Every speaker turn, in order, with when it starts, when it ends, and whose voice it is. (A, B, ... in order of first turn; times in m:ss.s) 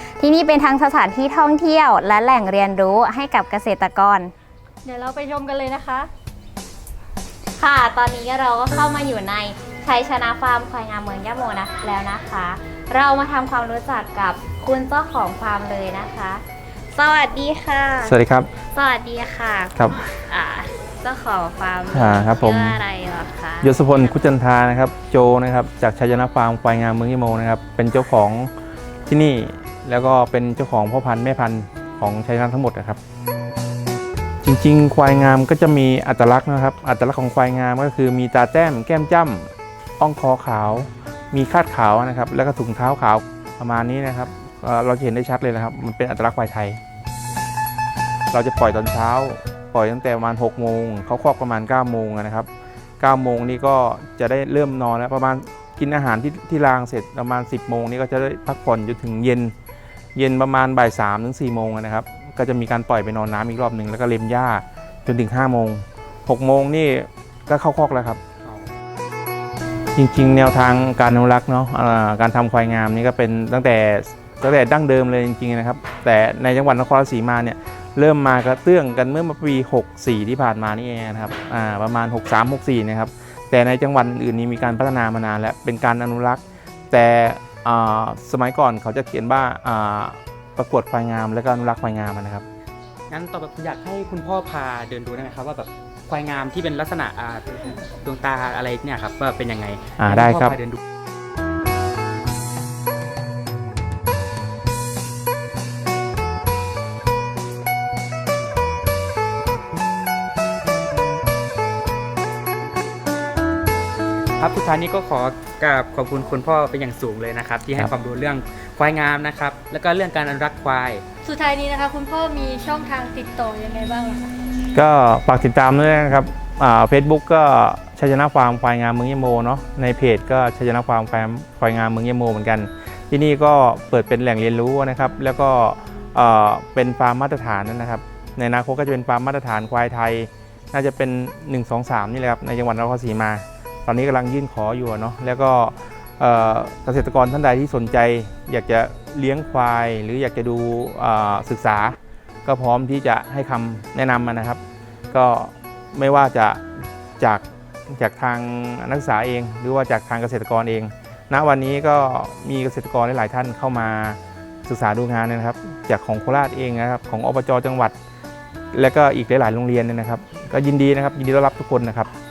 0:00.2-0:04.3 A
0:04.8-0:06.1 B
0:07.6-0:18.1 A
0:18.0-0:18.5 C
0:18.7-0:24.1 A
0:21.9-0:22.8 C
0:23.6-0:28.5 C
0:29.1-0:33.0 C
0:34.4-0:46.8 C
0:48.3-0:52.5 C
0:53.0-0:59.5 C
1:00.1-1:08.2 C
1:08.4-1:08.7 D
1:10.0-1:32.4 C
1:33.1-1:40.8 D
1:40.0-1:40.6 C
1:54.4-2:01.0 D
2:01.2-2:04.3 B
2:04.7-2:34.6 C
2:35.1-2:36.6 C
2:37.2-2:47.9 C
2:48.7-2:52.1 C